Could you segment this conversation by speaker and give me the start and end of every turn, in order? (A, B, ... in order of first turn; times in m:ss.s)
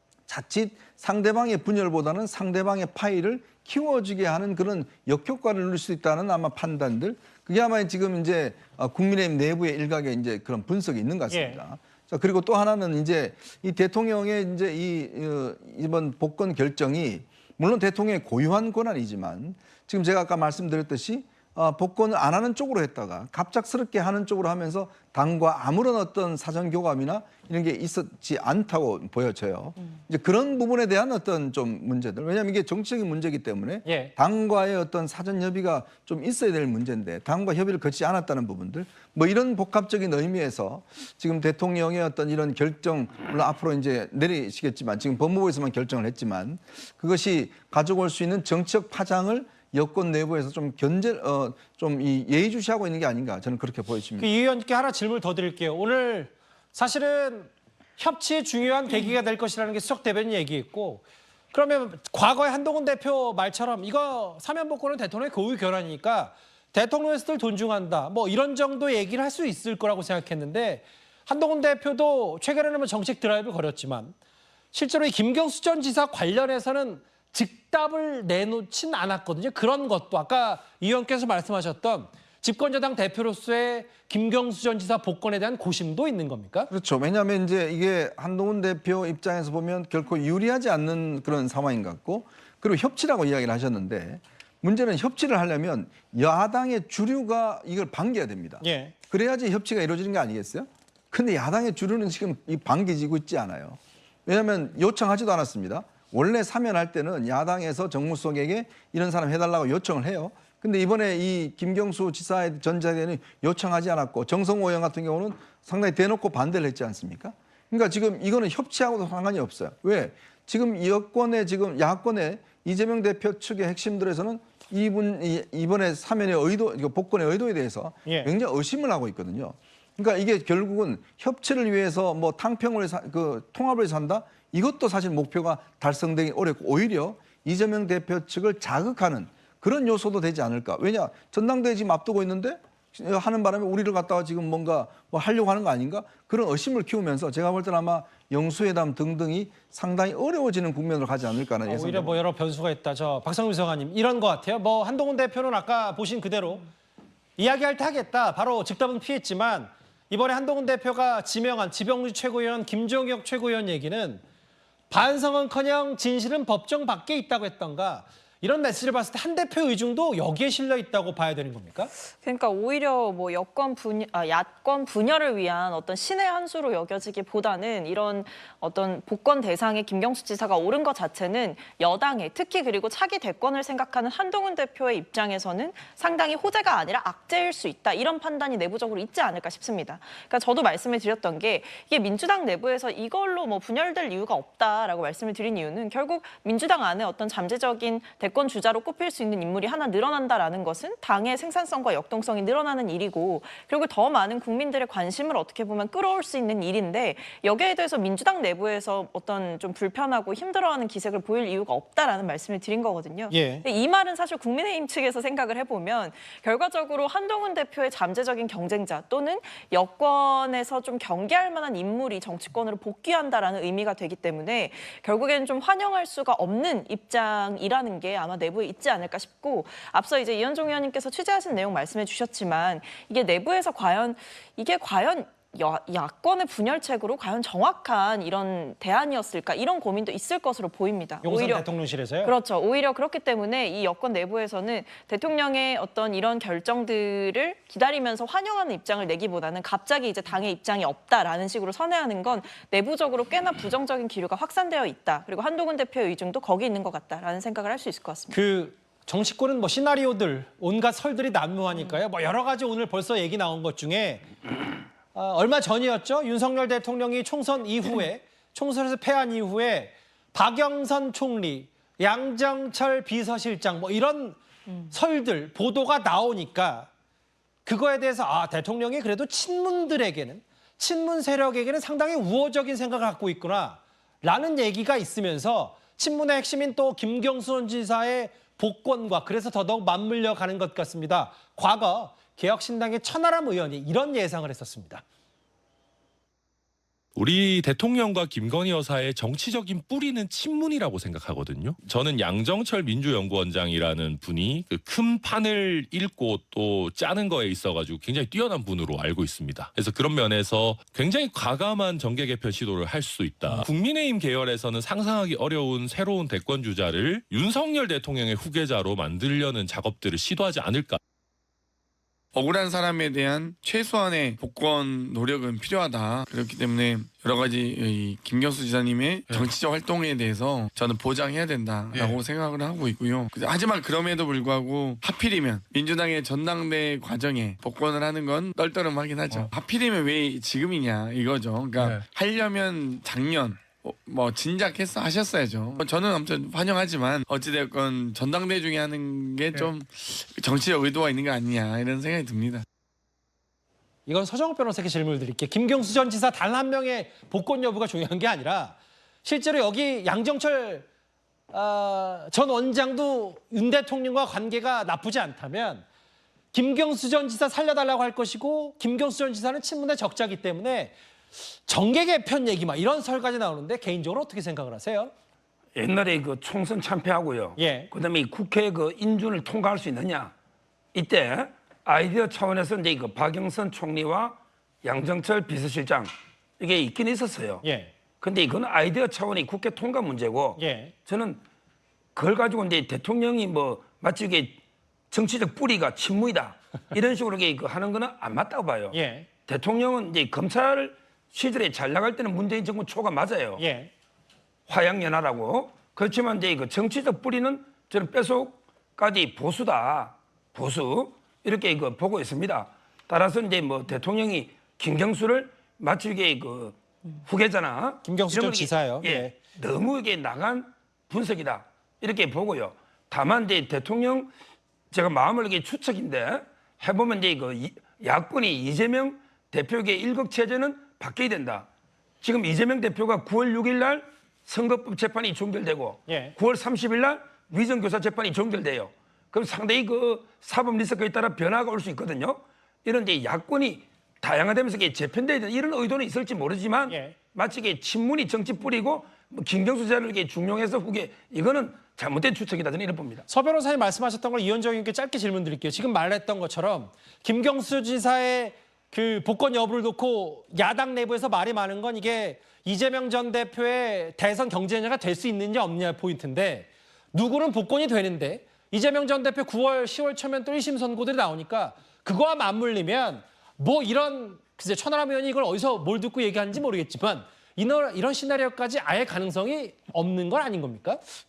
0:00.3-0:54.3 A
0:11.3-0:11.6 B
0:33.8-0:34.1 B
0:54.2-1:14.1 B
1:14.7-1:26.7 B
1:26.7-2:32.2 A
1:38.6-1:38.9 B
2:08.0-2:08.3 B
2:31.7-2:36.7 B
2:37.4-2:44.2 B
2:44.9-2:51.9 B
2:52.2-4:01.7 C
3:33.3-3:33.6 B
4:01.2-4:02.3 B
4:02.2-4:18.4 C
4:18.3-4:24.3 B
4:25.1-4:34.4 B
4:34.9-4:36.9 B
4:37.6-4:55.0 B
4:57.2-5:21.0 D
5:22.3-5:52.6 E
5:54.1-6:00.8 B
6:01.5-6:05.8 B
6:06.5-6:15.1 B
6:15.8-6:20.3 F
6:17.6-6:17.9 B
6:20.9-6:27.6 F
6:27.6-6:27.9 B
6:28.2-6:31.4 F
6:30.6-6:30.9 B
6:32.1-6:34.6 F
6:35.1-6:43.6 F
6:38.9-6:39.3 B
6:43.6-6:43.9 B
6:44.7-7:04.3 F
6:58.0-6:59.4 B
7:04.9-7:11.7 F
7:12.2-7:33.2 F
7:16.1-7:16.3 B
7:26.9-7:27.2 B
7:33.3-8:01.0 B